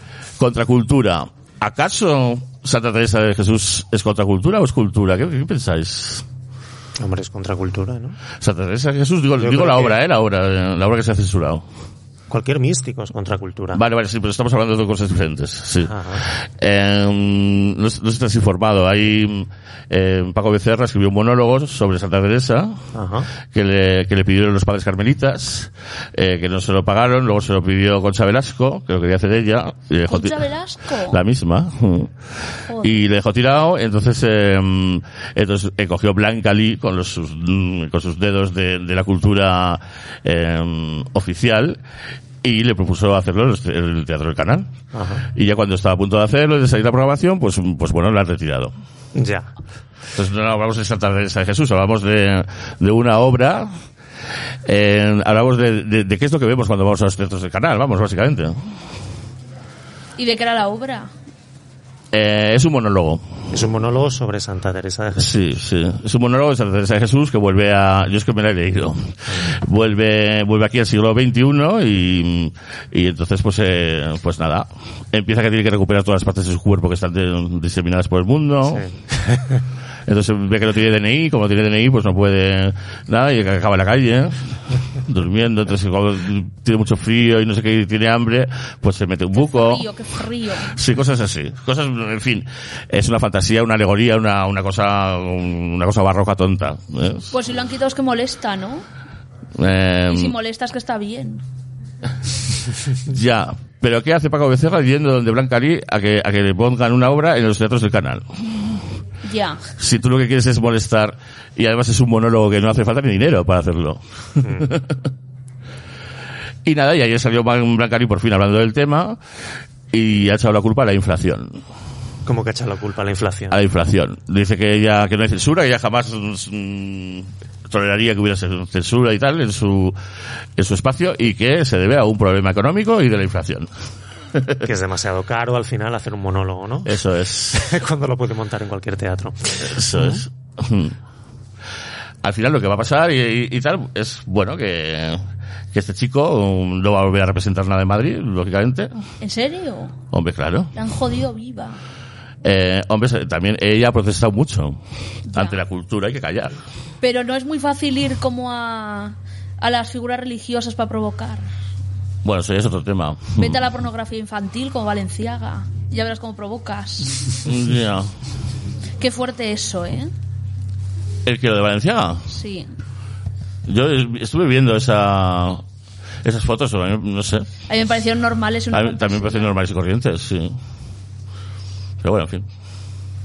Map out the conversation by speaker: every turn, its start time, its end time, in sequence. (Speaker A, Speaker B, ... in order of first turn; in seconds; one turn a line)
Speaker A: 0.4-6.3
Speaker B: 7.0-8.2
Speaker A: 8.4-11.7
Speaker B: 9.4-10.0
Speaker B: 12.3-13.8
Speaker A: 13.7-22.8
Speaker B: 15.9-16.2
Speaker B: 22.9-23.3
Speaker A: 23.5-30.4
Speaker C: 30.1-31.2
Speaker A: 31.1-32.1
Speaker C: 32.7-32.9
Speaker A: 32.8-41.8
Speaker A: 42.4-44.7
Speaker B: 44.9-45.3
Speaker A: 45.4-48.7
Speaker B: 49.1-49.5
Speaker A: 50.1-53.7
Speaker A: 54.6-58.6
Speaker C: 60.2-61.1
Speaker A: 62.1-63.4
Speaker B: 63.5-65.4
Speaker A: 65.2-78.9
Speaker B: 78.7-79.6
Speaker A: 80.1-89.9
Speaker C: 89.3-90.8
Speaker A: 90.7-97.3
Speaker C: 97.3-98.8
Speaker A: 99.6-100.3
Speaker C: 100.1-101.4
Speaker A: 103.0-108.8
Speaker C: 109.2-109.7
Speaker A: 109.8-115.0
Speaker B: 114.4-114.7
Speaker A: 116.7-119.2
Speaker A: 119.9-121.6
Speaker B: 122.3-123.6
Speaker A: 123.5-130.0
Speaker A: 130.6-133.7
Speaker A: 134.3-134.7
Speaker B: 134.6-137.0
Speaker A: 136.9-137.7
Speaker B: 137.5-140.2
Speaker A: 139.6-140.9
Speaker A: 142.2-148.9
Speaker C: 149.2-150.0
Speaker A: 150.1-150.7
Speaker C: 150.7-151.8
Speaker A: 152.4-154.8
Speaker C: 155.3-155.6
Speaker A: 155.3-156.6
Speaker C: 157.0-161.5
Speaker A: 162.2-163.6
Speaker C: 163.4-167.4
Speaker A: 167.4-168.1
Speaker C: 169.0-170.1
Speaker A: 171.2-172.3
Speaker C: 172.3-172.7
Speaker A: 173.7-175.6
Speaker A: 176.2-177.5
Speaker C: 177.7-179.5
Speaker A: 178.7-180.6
Speaker A: 182.0-182.5